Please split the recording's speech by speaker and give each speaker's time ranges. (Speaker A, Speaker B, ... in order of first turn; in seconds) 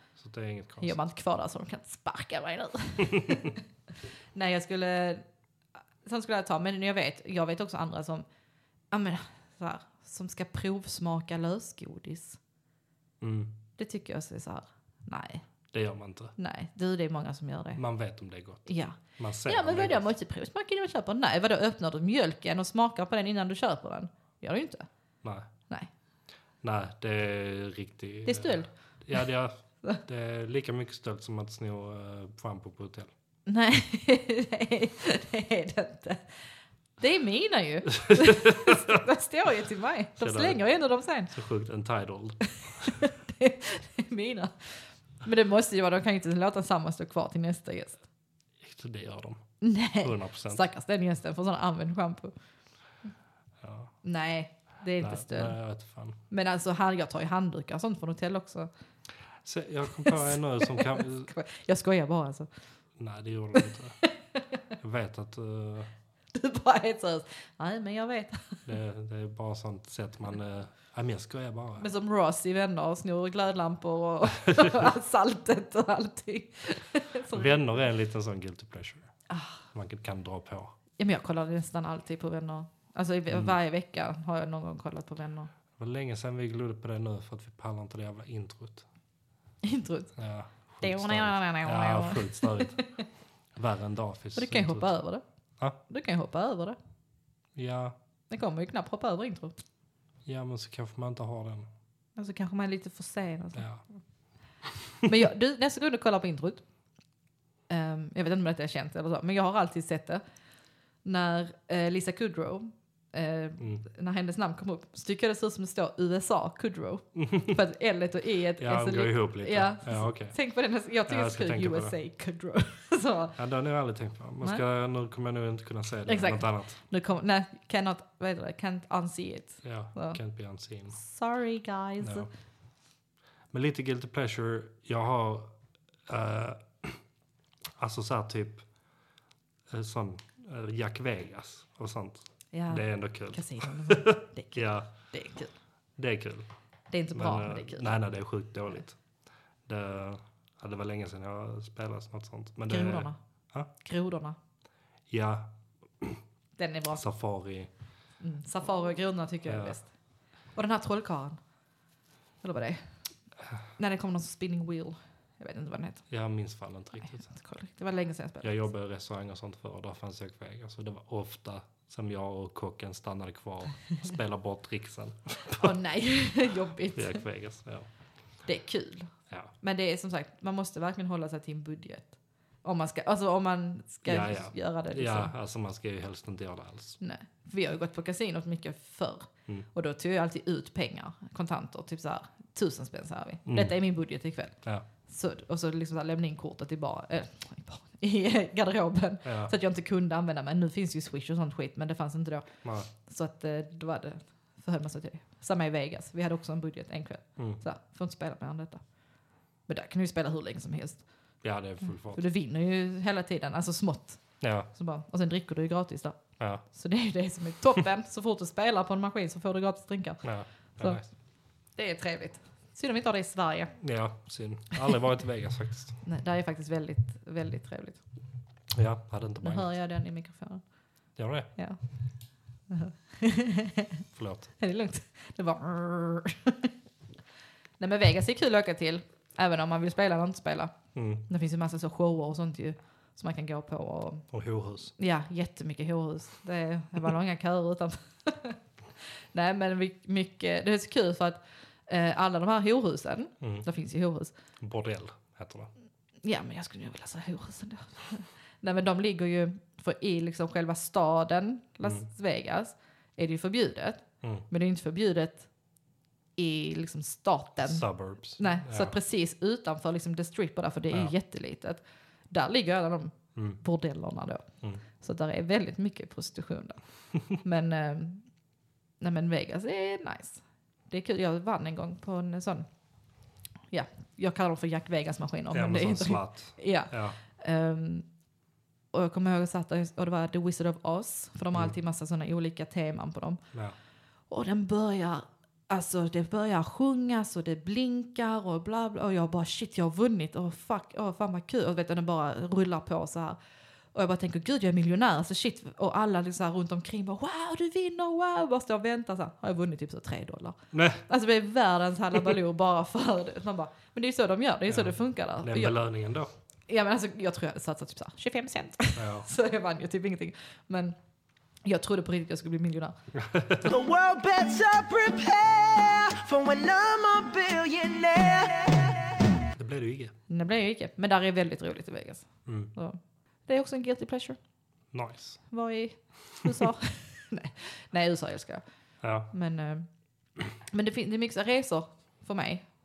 Speaker A: 0.2-0.9, 3.1-3.4, 13.2-13.5, 15.7-16.4, 17.8-20.1, 25.2-25.5, 26.6-33.1, 37.9-39.0, 40.2-40.6, 41.3-42.9, 48.6-49.4, 50.0-50.6, 53.6-53.9, 55.0-56.2, 59.4-61.3, 63.0-64.0, 64.8-65.9, 68.7-71.9, 77.3-79.1, 79.7-80.7, 85.8-88.9, 90.2-92.9, 93.6-94.9, 97.6-98.0, 100.3-101.7, 103.6-103.8, 117.2-117.6, 118.6-120.4, 121.1-122.0, 123.4-126.8, 129.6-131.0, 132.0-132.3, 133.5-135.5, 136.1-137.0, 137.8-138.7, 139.7-144.9, 146.0-146.5, 147.1-149.0, 149.7-153.7, 155.1-156.2, 156.9-157.7, 159.5-159.8, 166.1-167.3, 168.4-175.7, 176.9-177.9, 184.1-187.0, 193.5-193.7, 199.2-199.5, 202.6-202.9, 211.4-212.2, 214.4-214.7, 216.4-216.6, 220.2-221.1, 223.8-226.0, 228.7-229.7, 231.2-231.5, 234.1-234.5, 240.9-241.2, 244.3-244.9, 253.4-253.7, 254.6-255.7, 267.6-268.9, 285.5-287.2, 310.7-311.1, 314.7-316.3, 319.0-319.3, 323.1-323.6, 329.6-330.1, 332.5-332.7, 334.9-335.4, 339.0-339.3
Speaker B: 0.8-3.6, 4.3-5.2, 6.0-8.3, 8.9-12.4, 13.8-15.4, 16.4-17.8, 18.7-24.9, 28.3-28.7, 33.5-36.3, 37.0-41.3, 42.8-48.0, 49.6-52.3, 54.0-55.6, 56.3-58.7, 60.0-62.5, 63.5-64.6, 66.3-68.6, 71.8-77.6, 79.3-79.6, 81.0-85.5, 89.6-90.2, 90.8-93.0, 94.3-95.2, 95.8-96.8, 98.3-99.5, 102.2-103.7, 105.0-106.6, 107.7-110.2, 111.0-123.4, 126.1-130.2, 130.9-132.3, 142.5-145.5, 146.9-148.0, 152.7-153.2, 153.8-154.4, 156.6-157.0, 158.2-159.9, 160.5-161.4, 162.4-163.0, 163.8-166.1, 167.2-168.5, 175.6-177.2, 178.4-185.3, 187.0-208.8, 209.7-211.0, 212.1-220.2, 221.8-223.8, 226.0-228.0, 229.4-230.6, 232.7-234.0, 234.6-236.7, 237.8-240.8, 241.3-244.3, 245.0-254.3, 256.2-265.5, 266.4-267.9, 268.4-278.2, 279.0-282.7, 283.7-288.1, 288.9-293.4, 294.3-303.4, 303.9-315.8, 316.7-321.0, 321.6-323.0, 330.3-334.4, 335.5-338.6, 339.3-339.9, 340.7-342.7
Speaker C: 323.6-329.2